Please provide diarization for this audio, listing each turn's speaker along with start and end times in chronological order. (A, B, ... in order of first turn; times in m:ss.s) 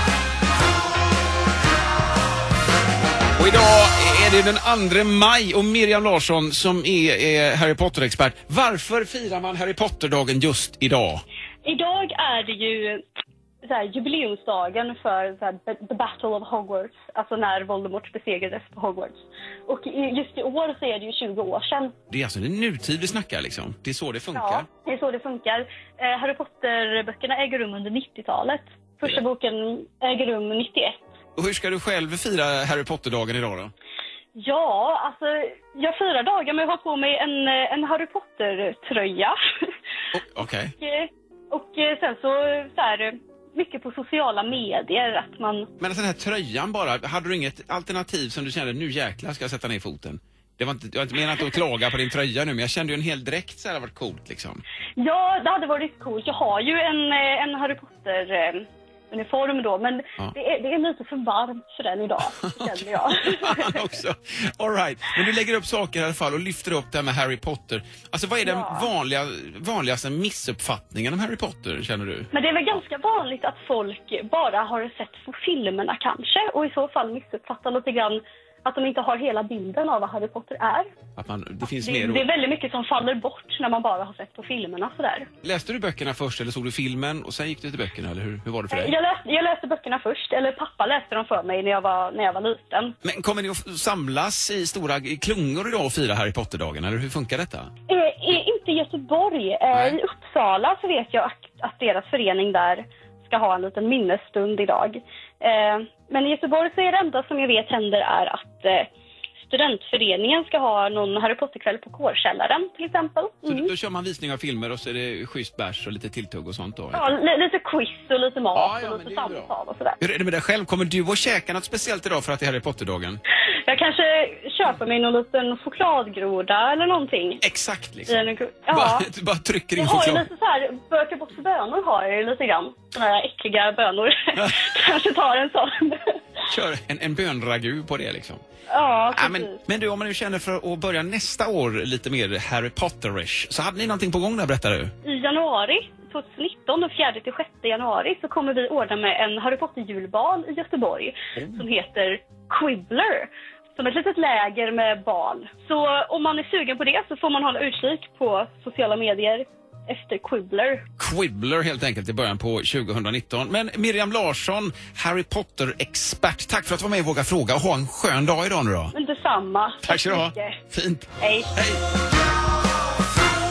0:03.4-0:11.2 A
0:11.6-0:13.0 B
0:13.6-0:21.9 B
0:22.1-0:24.6 A
0:24.3-0:31.0 B
0:31.4-0:33.7 A
0:34.4-0:39.4 B
0:40.1-0:40.7 A
0:40.8-0:45.7 B
0:45.8-0:54.6 A
0:55.0-1:04.0 B
1:02.3-1:12.3 A
1:08.4-1:08.9 B
1:12.3-1:20.9 B
1:21.2-1:22.3 A
1:21.6-1:25.3 B
1:25.4-1:28.9 A
1:28.7-1:33.0 B
1:33.0-1:37.7 A
1:37.9-1:48.9 B
1:39.7-1:40.0 A
1:49.4-1:53.7 B
1:53.4-1:57.1 A
1:56.9-2:00.0 B
1:58.5-2:03.2 A
2:03.5-2:07.4 B
2:07.4-2:10.2 A
2:08.1-2:09.1 B
2:09.8-2:16.4 B
2:16.5-2:18.4 A
2:18.7-2:19.6 B
2:19.1-2:24.9 A
2:25.0-2:40.8 B
2:41.0-2:48.9 A
2:48.9-2:50.6 B
2:49.8-2:51.8 A
2:51.2-2:51.5 B